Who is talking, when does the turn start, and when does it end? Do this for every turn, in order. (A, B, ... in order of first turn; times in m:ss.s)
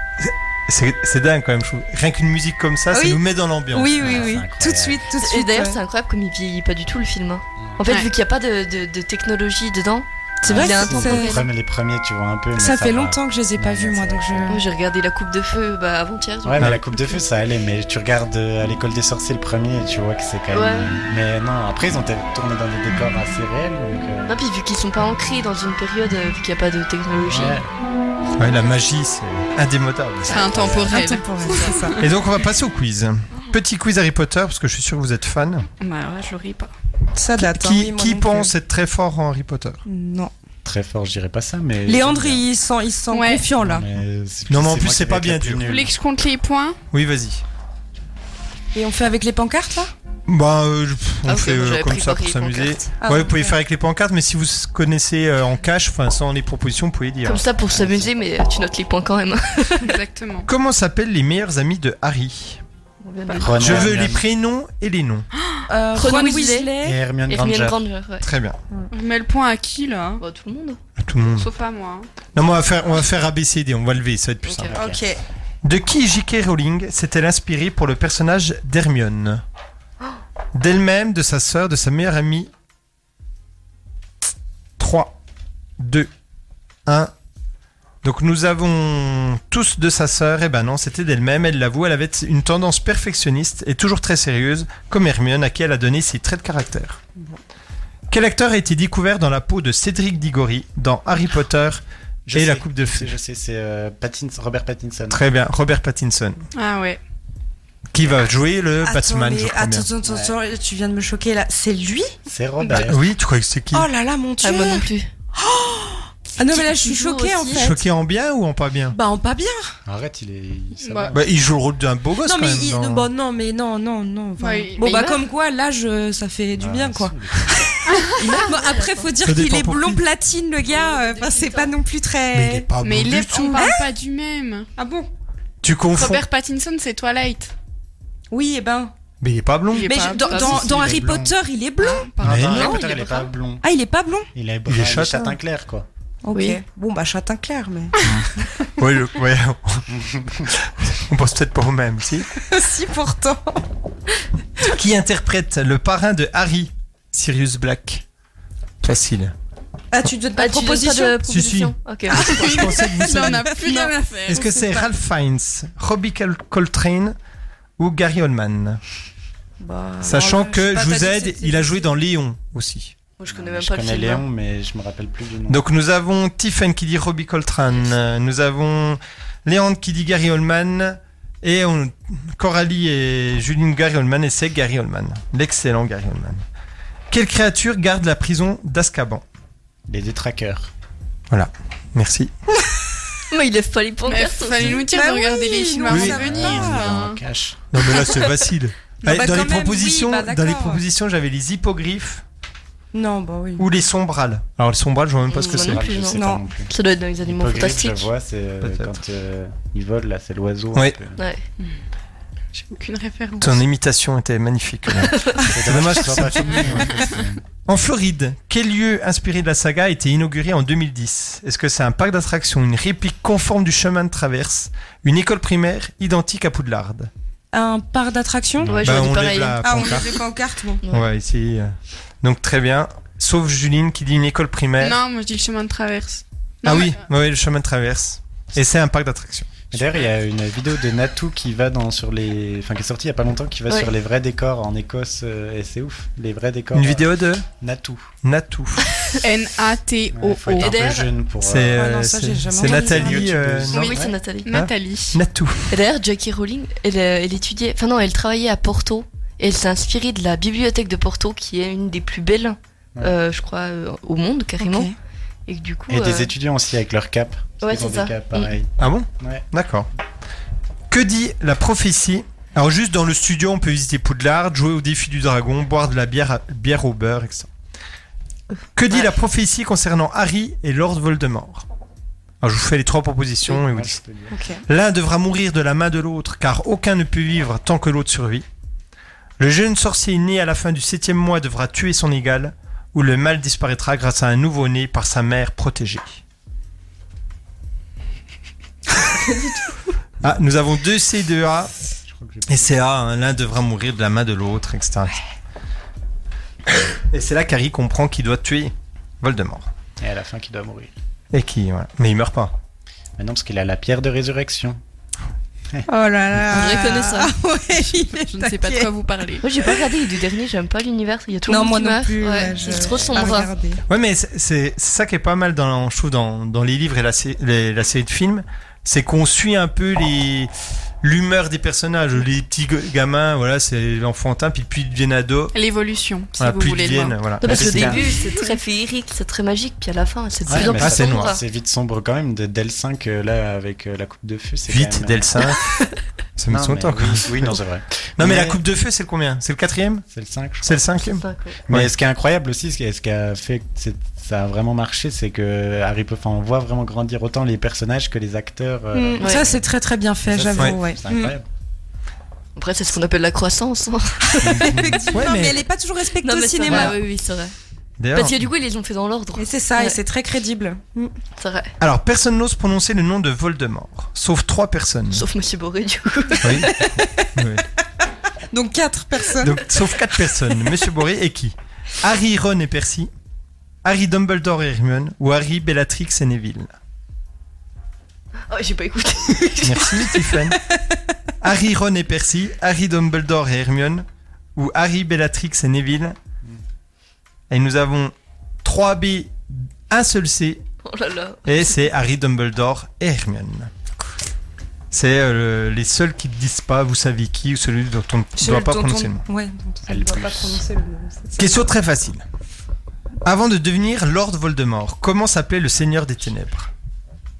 0:00.2-0:04.4 A
0:02.9-0:05.8 B
0:04.0-0:05.0 C
0:05.2-0:11.5 D
0:10.4-0:11.4 B
0:10.4-0:14.6 C
0:12.6-0:14.6 B
0:14.5-0:17.2 D
0:16.4-0:24.3 C
0:20.5-0:21.0 D
0:24.3-0:27.6 D
0:27.3-0:27.7 C
0:28.4-0:30.8 A
0:30.3-0:32.1 E
0:30.3-0:31.1 C
0:30.9-0:32.0 B
0:31.5-0:31.8 D
0:32.0-0:35.7 A
0:35.8-0:36.7 E
0:37.2-0:38.5 B
0:37.4-0:39.8 A
0:39.9-0:40.3 B
0:40.6-0:42.4 C
0:41.9-0:43.9 B
0:43.1-0:43.5 E
0:43.6-0:45.9 C
0:44.5-0:45.6 A
0:45.6-0:46.8 E
0:46.9-0:47.4 A
0:48.7-0:49.9 B
0:50.3-0:57.4 A
0:51.2-0:52.9 D
0:53.0-0:53.6 B
0:57.2-1:00.0 D
0:57.7-0:58.1 C
0:59.8-1:00.5 E
1:00.5-1:02.6 A
1:03.0-1:03.9 D
1:03.4-1:04.2 C
1:03.6-1:05.3 A
1:05.4-1:05.6 E
1:05.7-1:07.0 B
1:05.9-1:06.7 D
1:06.8-1:07.8 C
1:07.3-1:08.3 D
1:08.2-1:08.6 A
1:08.9-1:10.2 E
1:10.2-1:10.8 D
1:11.0-1:11.5 A
1:11.2-1:12.1 E
1:12.4-1:14.7 A
1:14.4-1:14.8 D
1:14.8-1:15.0 C
1:14.8-1:15.2 B
1:15.6-1:19.4 A
1:20.5-1:22.5 A
1:24.8-1:25.2 A
1:25.8-1:26.1 A
1:26.9-1:27.1 A
1:28.0-1:37.0 A
1:38.1-1:43.1 A
1:42.3-1:45.2 C
1:45.1-1:46.4 A
1:46.6-1:47.0 E
1:47.9-1:49.9 A
1:48.8-1:52.2 B
1:50.0-1:50.4 C
1:52.3-1:53.0 C
1:52.8-1:53.9 A
1:53.7-1:57.8 B
1:54.4-1:55.1 D
1:56.4-1:57.7 D
1:57.5-1:59.0 A
1:58.9-1:59.8 B
1:59.9-2:01.3 C
2:00.8-2:01.2 E
2:01.1-2:03.1 A
2:02.2-2:12.7 B
2:04.4-2:04.8 E
2:04.8-2:05.2 D
2:06.6-2:07.7 C
2:08.2-2:09.1 D
2:09.2-2:10.0 A
2:10.8-2:11.7 D
2:10.8-2:11.4 E
2:12.3-2:13.6 A
2:12.8-2:14.7 E
2:13.3-2:13.8 B
2:14.8-2:15.1 B
2:15.6-2:16.2 A
2:15.9-2:17.5 E
2:18.3-2:18.9 B
2:19.2-2:20.0 A
2:19.7-2:20.6 E
2:19.8-2:22.1 B
2:20.3-2:21.3 C
2:21.8-2:23.3 E
2:22.2-2:23.7 C
2:22.2-2:22.7 A
2:22.5-2:23.2 D
2:23.6-2:24.3 B
2:24.4-2:25.9 C
2:24.7-2:25.4 A
2:26.2-2:28.7 B
2:26.3-2:26.6 D
2:28.8-2:29.9 A
2:29.9-2:30.5 C
2:30.5-2:32.3 A
2:32.5-2:33.6 B
2:34.6-2:38.0 A
2:38.8-2:39.3 A
2:39.9-2:41.2 B
2:40.4-2:42.6 D
2:41.3-2:43.5 A
2:42.1-2:44.9 B
2:42.2-2:44.4 E
2:44.3-2:47.2 A
2:47.8-2:48.8 A
2:49.6-2:51.9 B
2:50.0-2:52.9 A
2:53.2-2:54.3 D
2:53.3-2:55.6 C
2:55.5-3:06.4 A
3:07.1-3:09.2 A
3:09.9-3:10.7 C
3:11.3-3:12.3 A
3:13.3-3:14.8 D
3:14.1-3:17.2 E
3:14.6-3:16.8 B
3:15.9-3:16.2 A
3:16.0-3:17.6 C
3:17.7-3:22.2 A
3:17.9-3:18.3 B
3:19.0-3:20.8 B
3:22.9-3:23.7 B
3:23.6-3:25.8 A
3:25.3-3:28.1 D
3:25.4-3:31.2 C
3:26.1-3:26.4 B
3:28.6-3:29.0 A
3:31.2-3:31.4 D
3:32.5-3:33.6 E
3:33.4-3:36.9 A
3:35.0-3:35.6 D
3:35.5-3:37.4 C
3:36.5-3:36.9 E
3:37.6-3:47.1 A
3:47.5-3:48.9 B
3:48.7-3:50.0 D
3:48.8-3:50.1 A
3:49.6-3:50.8 B
3:50.8-3:51.1 D
3:50.9-3:55.0 A
3:54.8-3:57.0 E
3:56.6-4:00.0 A
3:59.7-4:08.1 C
4:06.7-4:07.5 A
4:08.2-4:09.1 A
4:09.2-4:10.8 E
4:10.1-4:11.8 C
4:10.5-4:11.1 D
4:11.4-4:13.9 A
4:11.7-4:13.5 B
4:12.5-4:14.2 C
4:13.7-4:14.5 D
4:13.9-4:15.2 E
4:14.5-4:15.8 A
4:15.7-4:24.9 D
4:24.6-4:24.9 B
4:25.5-4:26.3 D
4:25.9-4:29.4 C
4:27.6-4:28.5 D
4:28.8-4:29.9 A
4:30.9-4:37.5 A
4:38.8-4:41.6 A
4:42.4-4:44.0 A
4:43.5-4:44.4 C
4:44.3-4:44.6 B
4:44.7-4:48.4 A
4:49.4-4:56.2 A
4:59.2-4:59.7 D
5:00.2-5:01.7 A
5:02.0-5:02.8 C
5:02.5-5:05.2 A
5:07.1-5:09.7 A
5:10.0-5:10.9 C
5:11.3-5:12.6 A
5:13.2-5:14.8 C
5:15.9-5:18.9 B
5:16.5-5:17.3 D
5:18.1-5:19.4 E
5:19.4-5:23.5 D
5:19.6-5:19.8 B
5:21.5-5:23.8 B
5:23.9-5:30.5 A
5:31.0-5:35.5 A
5:35.5-5:37.2 E
5:36.4-5:38.0 A
5:37.4-5:41.4 D
5:37.4-5:38.1 C
5:40.5-5:45.6 C
5:40.5-5:41.4 A
5:44.7-5:45.6 A
5:46.4-5:47.6 A
5:46.5-5:48.6 C
5:48.2-5:50.0 A
5:50.1-5:50.8 C
5:50.6-5:51.9 A
5:51.0-5:51.6 D
5:51.7-5:59.7 C
5:58.9-6:01.4 B
5:59.2-5:59.5 D
6:00.2-6:01.5 C
6:02.6-6:04.4 D
6:04.3-6:07.0 B
6:04.4-6:05.1 C
6:05.1-6:05.6 A
6:06.2-6:07.6 D
6:06.7-6:07.0 A
6:08.0-6:08.4 A
6:08.1-6:10.0 D
6:09.4-6:11.1 B
6:11.4-6:11.7 D
6:11.8-6:15.2 A
6:15.1-6:17.0 D
6:16.4-6:16.8 A
6:17.4-6:17.6 A
6:18.5-6:19.6 B
6:19.4-6:23.1 A
6:23.8-6:26.7 A
6:28.5-6:30.2 D
6:29.6-6:30.6 A
6:31.4-6:36.2 A
6:37.5-6:40.6 A
6:40.8-6:41.8 D
6:41.4-6:43.7 A
6:44.9-6:49.2 A
6:48.4-6:51.6 B
6:49.9-6:50.6 C
6:51.4-6:52.2 A
6:53.2-6:56.7 A